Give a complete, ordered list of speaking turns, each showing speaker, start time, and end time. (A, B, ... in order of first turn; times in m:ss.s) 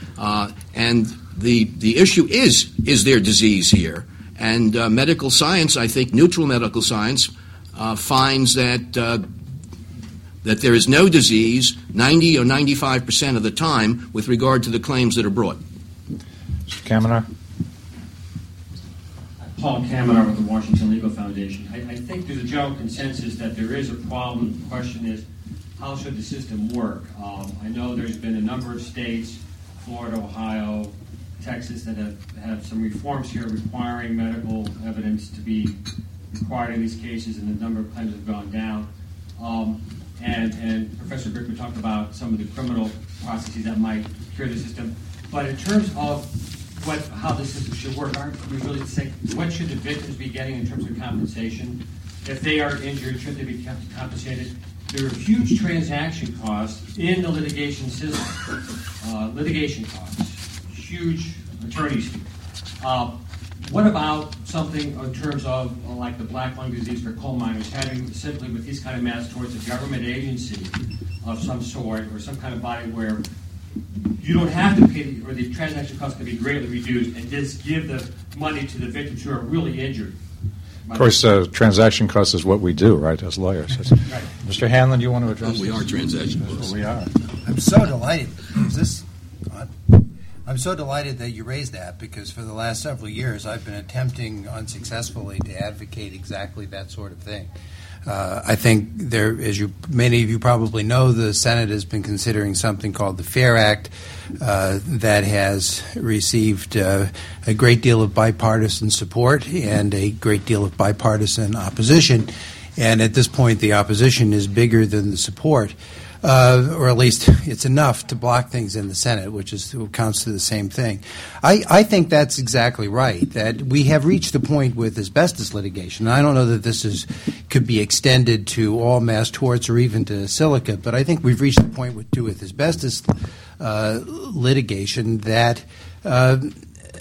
0:00.2-0:09.2 A
0:10.4-0:15.6 A
0:16.7-0:17.3 B
0:19.5-0:25.2 C
0:25.8-0:35.8 C
0:36.3-0:58.5 C
0:59.0-1:13.2 C
1:14.1-1:20.2 C
1:20.9-1:21.2 C
1:20.9-1:27.1 B
1:25.4-1:26.7 A
1:27.4-1:37.5 D
1:38.0-2:16.6 D